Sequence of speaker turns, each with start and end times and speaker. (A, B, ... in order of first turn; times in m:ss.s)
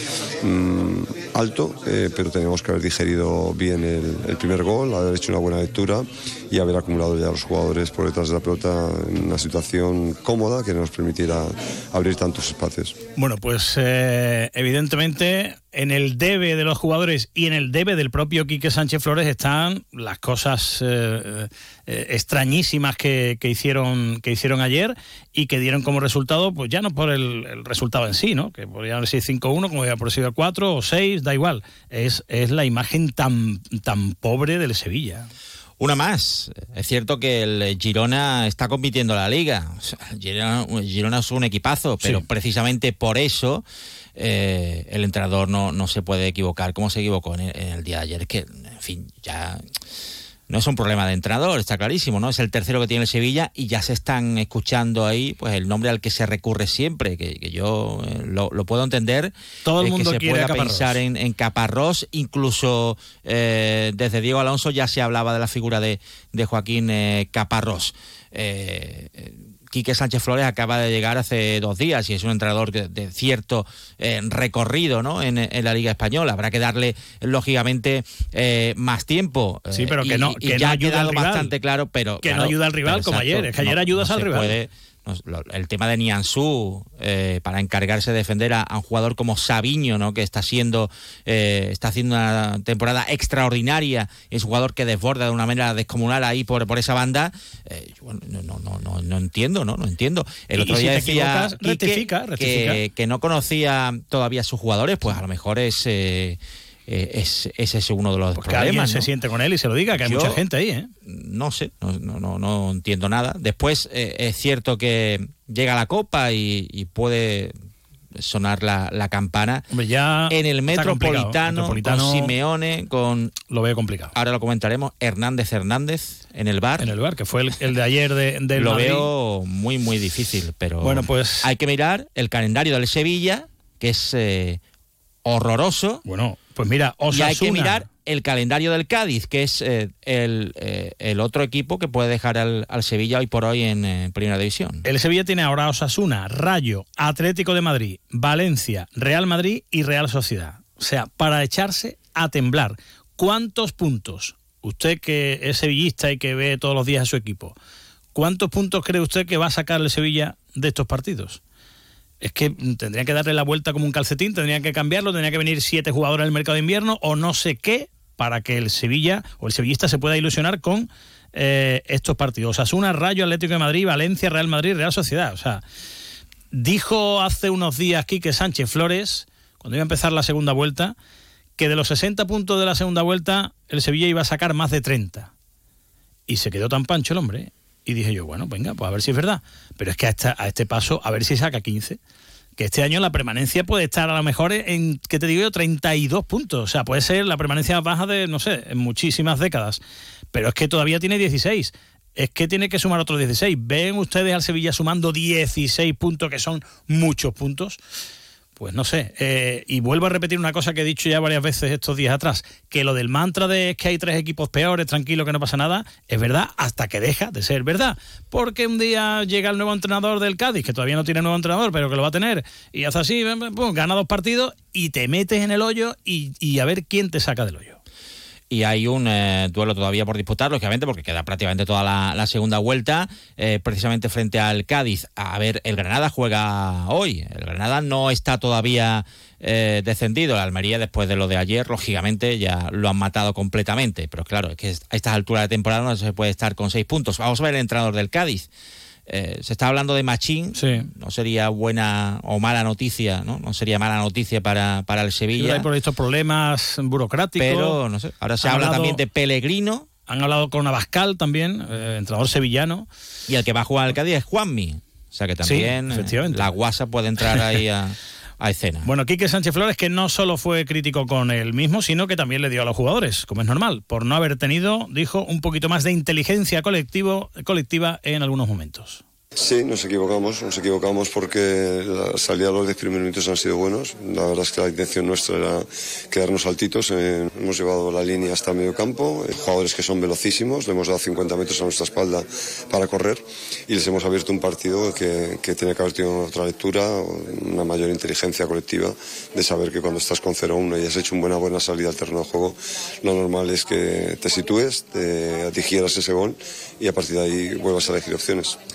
0:00.4-0:12.9 A
0:13.2-0:35.3 B
0:35.8-0:43.6 C
0:44.2-0:49.6 C
0:50.5-1:49.1 C
0:59.6-1:01.0 B
1:19.7-1:21.5 B
1:22.2-1:24.6 B
1:40.5-1:42.8 B
1:48.4-1:50.9 B
1:49.9-1:50.4 C
1:51.0-1:57.5 C
1:58.1-1:59.6 C
1:59.7-2:02.3 B
2:00.3-2:03.3 C
2:03.5-2:04.1 B
2:04.1-2:06.9 C
2:06.8-2:09.1 B
2:08.5-2:14.6 C
2:10.8-2:11.5 B
2:15.2-2:16.0 C
2:16.0-2:17.8 B
2:17.1-2:24.8 C
2:24.8-2:37.6 B
2:38.1-2:41.4 B
2:42.2-2:55.6 B
2:56.5-3:00.9 B
3:01.6-3:05.3 B
3:06.3-3:12.0 B
3:12.6-3:19.8 B
3:20.3-3:27.8 B
3:28.6-3:47.8 B
3:48.5-4:08.5 C
4:09.1-4:15.7 C
4:10.5-4:10.9 B
4:15.3-4:17.8 B
4:17.4-4:19.9 C
4:18.4-4:19.0 B
4:20.1-4:22.9 B
4:23.3-4:28.9 C
4:25.4-4:26.5 B
4:28.8-4:39.0 B
4:39.4-5:08.6 A